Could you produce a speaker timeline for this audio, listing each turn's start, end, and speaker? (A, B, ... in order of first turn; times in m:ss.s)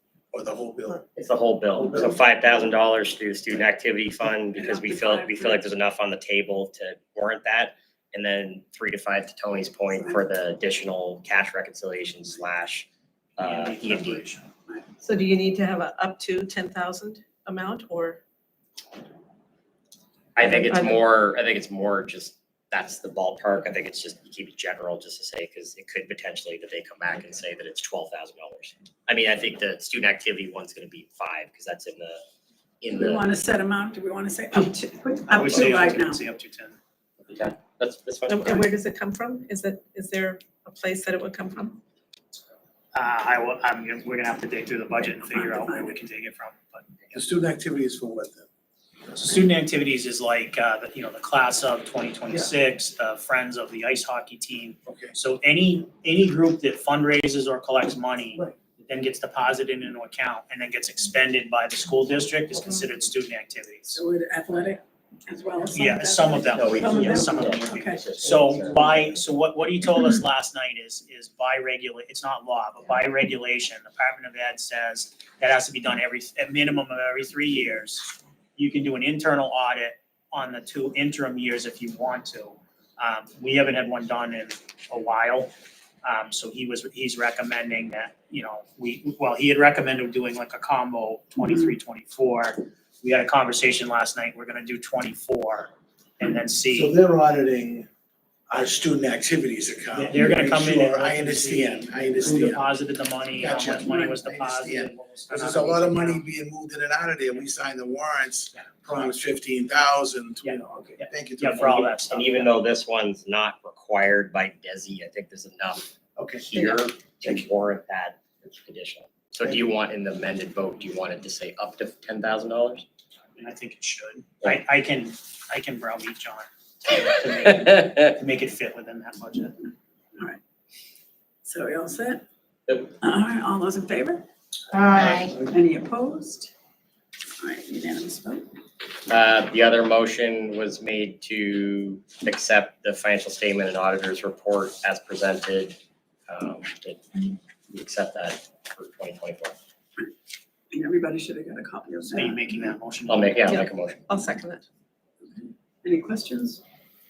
0:00.3-0:01.0 A
0:01.2-0:14.2 B
0:04.5-0:05.7 C
0:13.4-0:14.5 D
0:14.7-0:14.9 C
0:15.0-0:18.2 E
0:20.4-0:32.2 B
0:20.4-0:21.0 E
0:32.8-0:33.3 B
0:32.9-0:36.2 C
0:35.3-0:36.8 D
0:37.2-0:38.7 B
0:38.3-0:41.8 E
0:42.9-0:46.9 D
0:45.0-0:46.0 C
0:47.1-0:48.5 A
0:49.2-1:04.0 D
0:54.9-0:55.1 A
1:03.9-1:08.1 C
1:05.8-1:25.5 D
1:06.5-1:09.1 B
1:26.0-1:37.0 D
1:36.7-1:37.9 A
1:38.5-1:42.7 A
1:39.9-1:46.2 D
1:43.4-1:52.0 A
1:50.4-1:52.5 D
1:52.1-2:02.8 B
1:56.2-1:56.4 A
2:03.4-2:09.7 D
2:10.2-2:10.4 C
2:11.4-2:12.2 C
2:13.0-2:14.3 C
2:14.7-2:15.4 A
2:15.0-2:16.5 C
2:17.4-2:18.5 C
2:19.1-2:29.6 B
2:30.7-2:32.7 C
2:32.1-2:33.4 D
2:33.1-2:34.0 B
2:33.5-2:34.6 E
2:35.2-2:36.6 C